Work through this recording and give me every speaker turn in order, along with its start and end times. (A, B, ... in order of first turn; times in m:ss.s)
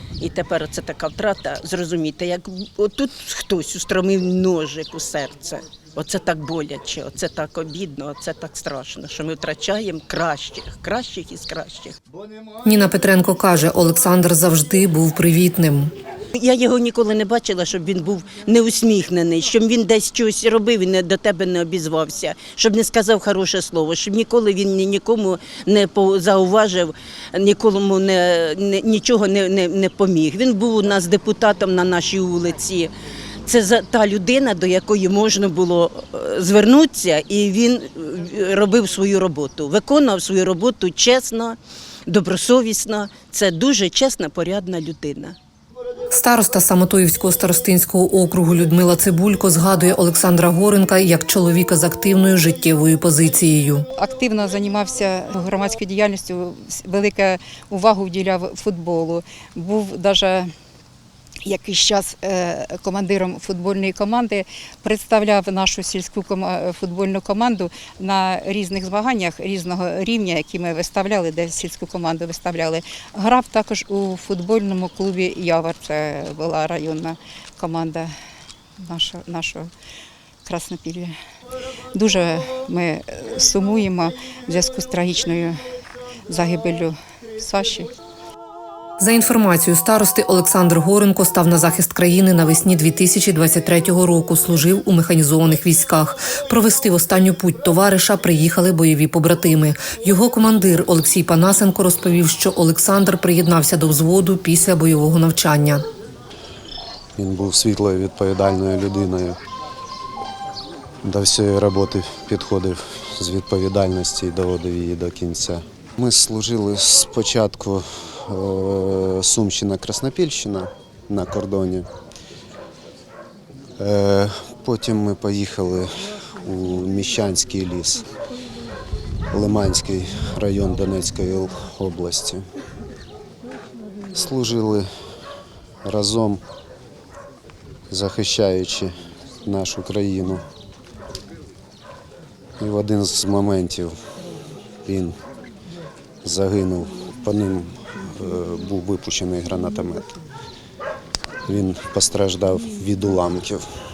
0:00.2-0:12.0 A
0:12.6-0:15.9 B
0:16.3-0:32.9 A
0:33.4-0:45.4 A
0:46.1-0:53.8 B
0:54.0-1:00.5 C
1:01.4-1:18.1 C
1:18.8-1:19.7 C
1:20.4-1:21.1 C
1:21.9-1:25.6 C
1:26.3-1:27.9 C
1:29.0-1:45.8 B
1:47.2-1:49.4 D
1:51.0-2:01.9 D
2:03.8-2:08.1 D
2:09.3-2:12.4 D
2:14.1-2:14.8 D
2:15.8-2:16.4 D
2:17.9-2:20.5 D
2:22.6-2:23.9 D
2:24.8-2:25.2 D
2:26.2-2:30.1 D
2:31.5-2:33.6 D